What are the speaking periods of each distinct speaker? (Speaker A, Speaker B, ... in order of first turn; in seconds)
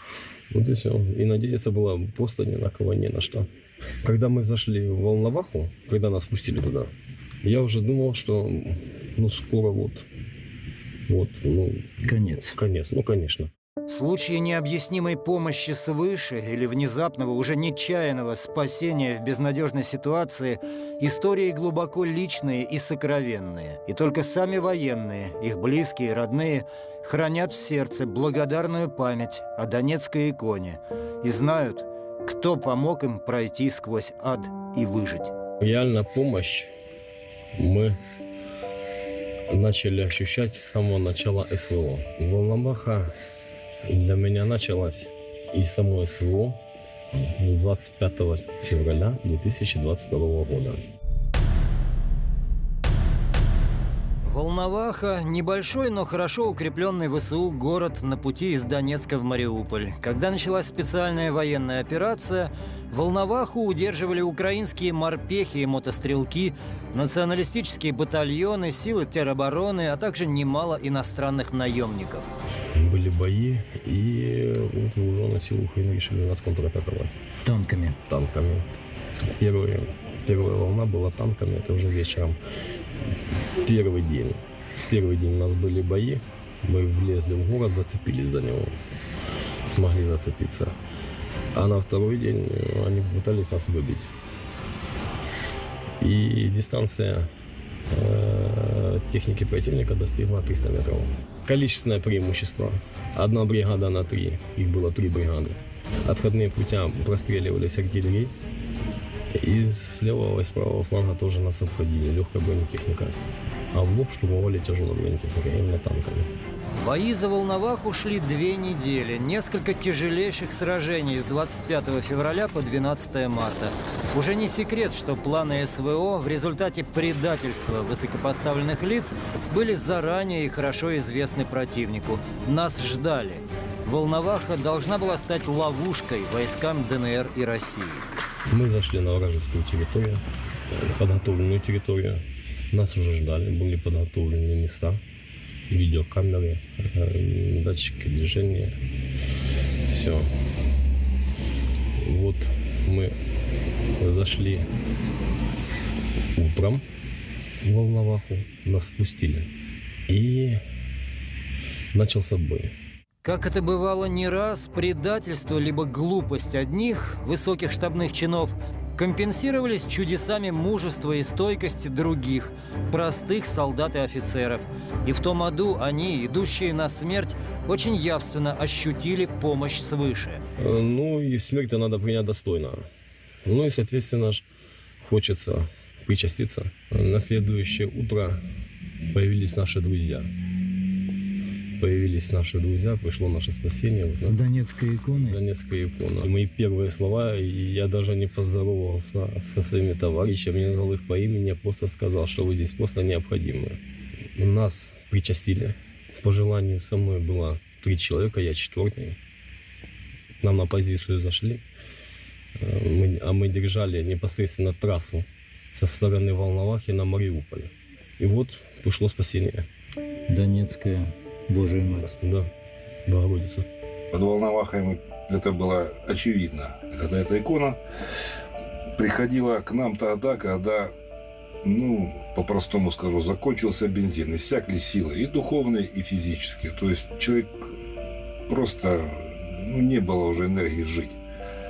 Speaker A: 0.5-3.5, 4.0-6.9, 7.4-10.1, 11.1-13.5, 35.6-36.7, 37.5-38.0, 39.5-43.1, 43.8-46.6, 47.1-50.8, 72.8-77.1, 78.1-78.7, 79.3-82.4, 83.1-88.8, 89.7-90.7, 91.5-94.1, 96.0-97.3, 97.9-108.3, 109.3-113.2, 113.7-116.3, 138.5-145.0, 145.7-148.7, 149.9-150.3, 151.9-153.2, 154.0-154.7, 156.3-156.8, 157.6-159.5, 160.1-160.6, 161.9-162.7, 180.6-182.9, 183.4-184.4, 185.0-188.4, 189.1-190.3, 191.8-194.4, 195.1-203.8, 204.3-209.2, 210.4-211.6, 212.6-219.7, 221.9-222.5, 223.1-223.7
Speaker B: 12.1-12.5, 13.9-35.3, 54.2-72.3, 77.5-77.9, 116.8-138.1, 163.2-180.4, 194.2-195.4, 220.3-222.1
Speaker C: 224.1-227.8, 228.9-230.9, 231.6-237.6, 238.5-241.2